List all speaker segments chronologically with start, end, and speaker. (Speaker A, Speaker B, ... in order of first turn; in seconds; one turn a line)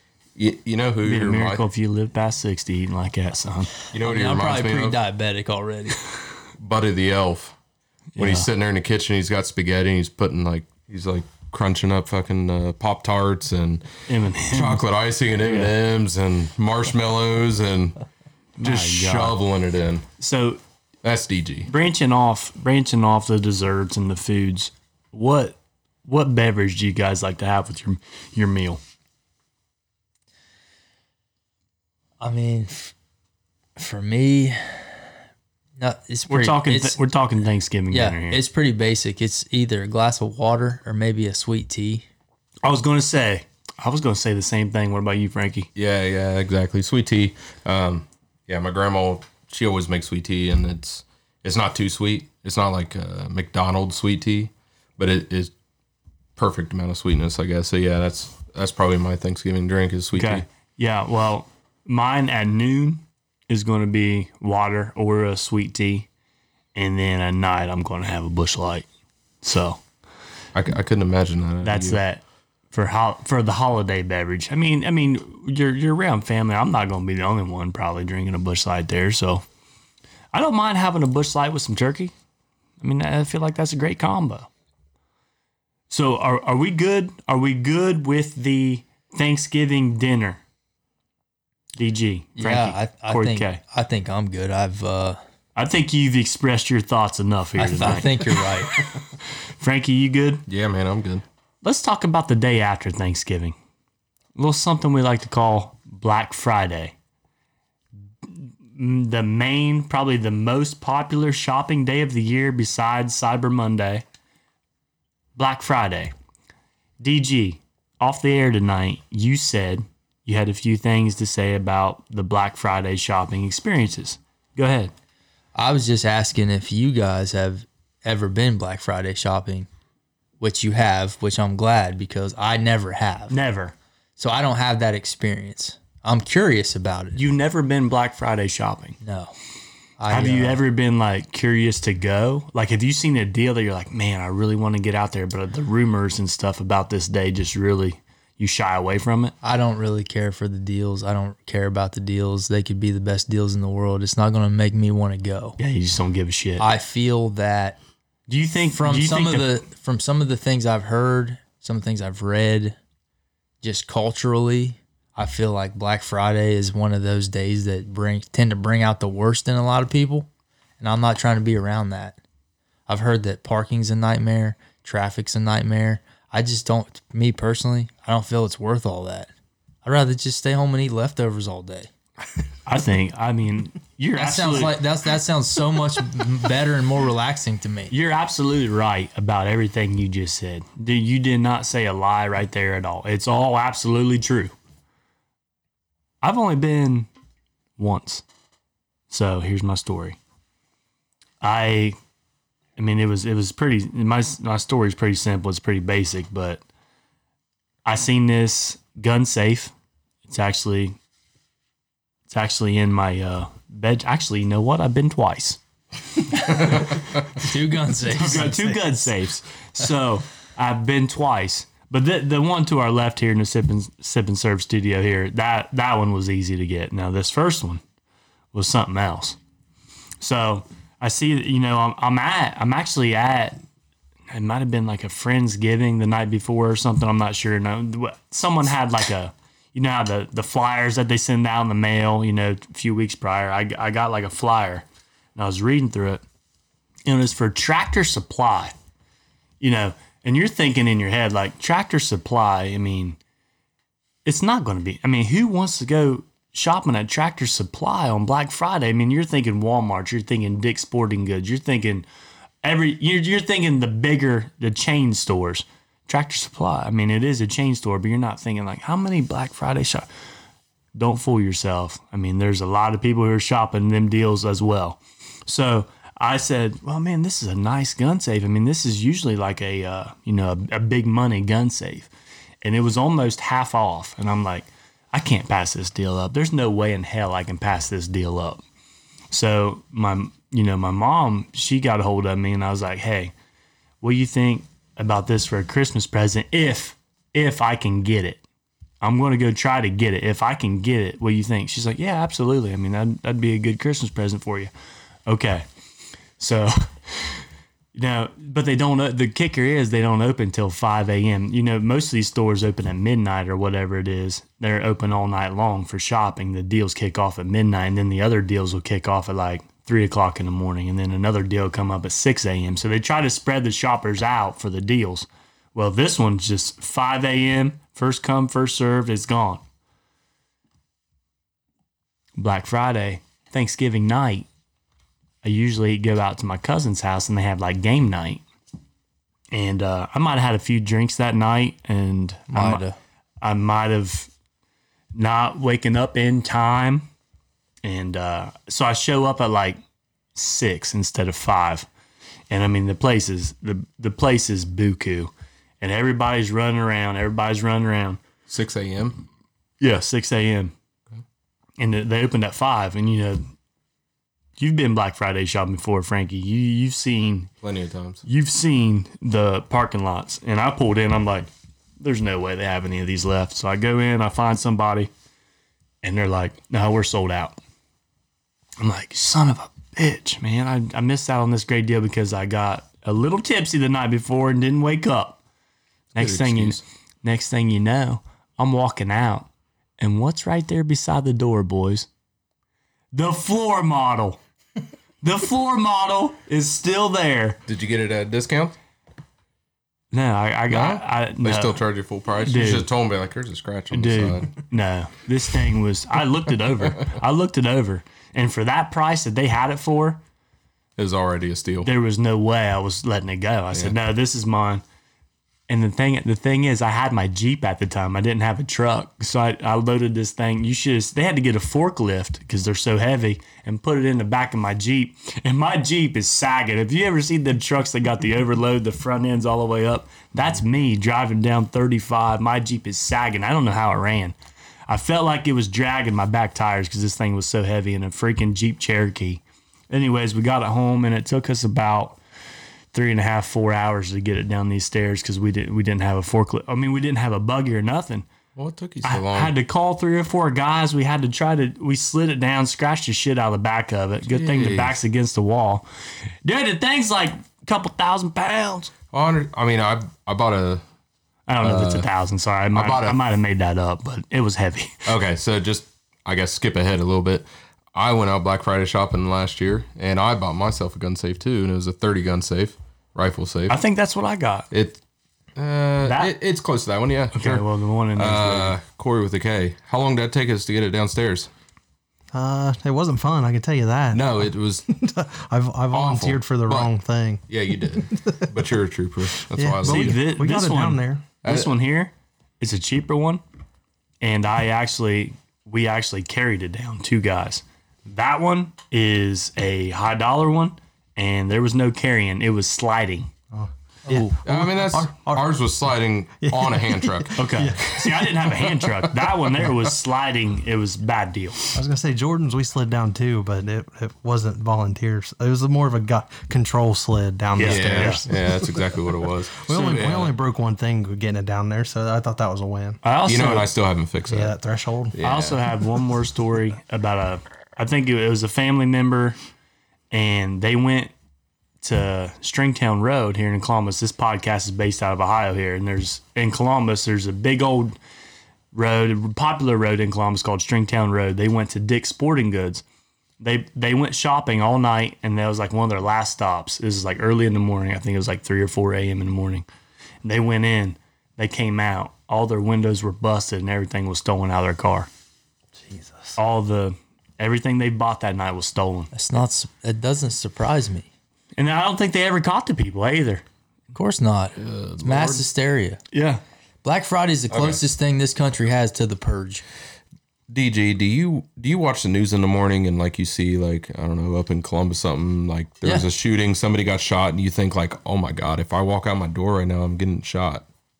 Speaker A: 0.3-1.6
Speaker B: 1.0-3.7
Speaker A: 3.9-5.0
Speaker C: 4.0-6.0
Speaker A: 6.6-7.5
Speaker B: 8.2-8.5
Speaker A: 8.2-13.9
Speaker B: 14.1-14.8
Speaker A: 14.5-18.0
Speaker B: 15.4-15.7
Speaker B: 18.6-19.4
Speaker A: 18.6-20.1
Speaker B: 20.2-20.6
Speaker A: 21.0-21.7
Speaker B: 21.7-28.8
Speaker C: 32.2-32.9
Speaker C: 33.8-35.0
Speaker C: 35.8-37.0
Speaker B: 36.3-38.4
Speaker C: 37.9-42.0
Speaker B: 42.6-45.7
Speaker A: 45.7-55.5
Speaker A: 56.4-60.5
Speaker B: 60.1-66.1
Speaker B: 66.7-68.8
Speaker B: 69.4-69.8
Speaker A: 70.5-72.0
Speaker B: 71.6-72.2
Speaker B: 72.7-79.4
Speaker B: 80.3-82.1
Speaker B: 82.8-84.5
Speaker B: 85.9-90.4
Speaker B: 91.8-93.6
Speaker C: 92.4-95.2
Speaker B: 95.5-98.3
Speaker C: 97.6-98.8
Speaker B: 99.6-100.4
Speaker A: 100.5-101.2
Speaker B: 101.6-103.5
Speaker B: 104.3-106.9
Speaker B: 108.7-114.0
Speaker B: 115.3-116.1
Speaker B: 117.0-124.9
Speaker C: 125.5-129.7
Speaker C: 130.4-133.3
Speaker B: 133.3-133.7
Speaker C: 134.2-137.2
Speaker B: 137.1-139.0
Speaker C: 139.0-139.3
Speaker C: 140.0-140.6
Speaker B: 140.1-149.3
Speaker C: 149.4-155.6
Speaker B: 155.6-156.6
Speaker C: 156.6-157.8
Speaker B: 158.3-159.6
Speaker C: 158.7-162.8
Speaker C: 163.6-170.3
Speaker C: 170.8-172.2
Speaker C: 172.9-179.3
Speaker C: 179.8-181.9
Speaker B: 182.7-184.8
Speaker C: 184.2-187.9
Speaker B: 187.9-194.5
Speaker B: 196.2-197.1
Speaker B: 197.8-198.2
Speaker B: 199.1-200.2
Speaker B: 201.4-201.9
Speaker B: 202.8-206.6
Speaker B: 207.8-209.7
Speaker B: 210.3-210.9
Speaker B: 212.3-215.6
Speaker C: 216.4-218.9
Speaker B: 218.1-227.8
Speaker B: 228.5-229.4
Speaker B: 230.2-233.6
Speaker B: 234.3-244.8
Speaker B: 245.3-246.2
Speaker B: 247.1-248.7
Speaker B: 249.6-253.2
Speaker B: 254.2-262.1
Speaker B: 262.6-270.1
Speaker B: 270.9-282.1
Speaker B: 282.6-288.6
Speaker B: 289.3-293.3
Speaker B: 294.0-298.4
Speaker B: 299.0-304.7
Speaker B: 305.3-305.6
Speaker B: 306.4-307.4
Speaker B: 307.9-329.6
Speaker B: 332.4-334.4
Speaker B: 335.4-338.4
Speaker B: 339.5-342.8
Speaker C: 342.5-342.9
Speaker B: 343.4-344.3
Speaker B: 345.1-347.1
Speaker B: 347.8-349.8
Speaker B: 350.3-351.9
Speaker B: 352.5-358.2
Speaker A: 358.5-359.2
Speaker B: 359.8-360.7
Speaker B: 361.8-363.4
Speaker B: 364.6-367.5
Speaker A: 367.6-368.2
Speaker B: 368.2-375.1
Speaker B: 376.0-377.6
Speaker B: 378.8-385.4
Speaker B: 386.1-389.5
Speaker A: 386.1-386.8
Speaker B: 390.0-392.1
Speaker B: 393.1-394.4
Speaker B: 395.2-397.6
Speaker A: 397.7-398.8
Speaker B: 400.1-401.8
Speaker A: 400.7-404.5
Speaker B: 402.4-402.9
Speaker B: 403.9-410.2
Speaker A: 411.0-411.9
Speaker B: 411.8-414.8
Speaker B: 415.7-434.3
Speaker B: 434.9-442.2
Speaker B: 442.9-448.2
Speaker A: 448.6-449.5
Speaker B: 449.0-455.9
Speaker A: 454.2-455.0
Speaker B: 456.4-458.9
Speaker A: 459.1-460.8
Speaker B: 461.5-465.1
Speaker A: 461.6-462.1
Speaker A: 462.7-463.2
Speaker A: 465.0-473.8
Speaker B: 473.7-474.7
Speaker A: 474.7-475.0
Speaker A: 475.6-481.5
Speaker B: 476.0-476.3
Speaker B: 477.3-478.8
Speaker D: 482.3-487.4
Speaker A: 484.1-484.9
Speaker A: 485.9-486.9
Speaker A: 487.5-490.2
Speaker D: 488.0-488.5
Speaker D: 489.6-491.2
Speaker B: 489.8-493.4
Speaker A: 491.4-491.7
Speaker B: 494.2-503.3
Speaker D: 503.5-505.5
Speaker C: 504.1-504.3
Speaker A: 504.4-507.6
Speaker D: 506.4-508.8
Speaker B: 507.4-511.8
Speaker D: 511.7-518.7
Speaker B: 517.5-518.2
Speaker A: 517.6-520.3
Speaker D: 519.6-523.0
Speaker B: 523.0-523.7
Speaker A: 523.2-524.5
Speaker D: 524.3-525.1
Speaker A: 525.1-525.6
Speaker B: 525.2-529.4
Speaker B: 530.1-531.1
Speaker B: 531.8-537.9
Speaker B: 538.7-542.8
Speaker B: 543.4-549.6
Speaker B: 550.2-555.1
Speaker D: 555.8-556.4
Speaker B: 556.4-559.1
Speaker C: 559.1-561.1
Speaker B: 561.6-563.4
Speaker C: 563.9-566.0
Speaker A: 564.5-565.4
Speaker B: 566.1-566.4
Speaker C: 566.8-569.6
Speaker A: 567.5-567.8
Speaker A: 570.5-580.7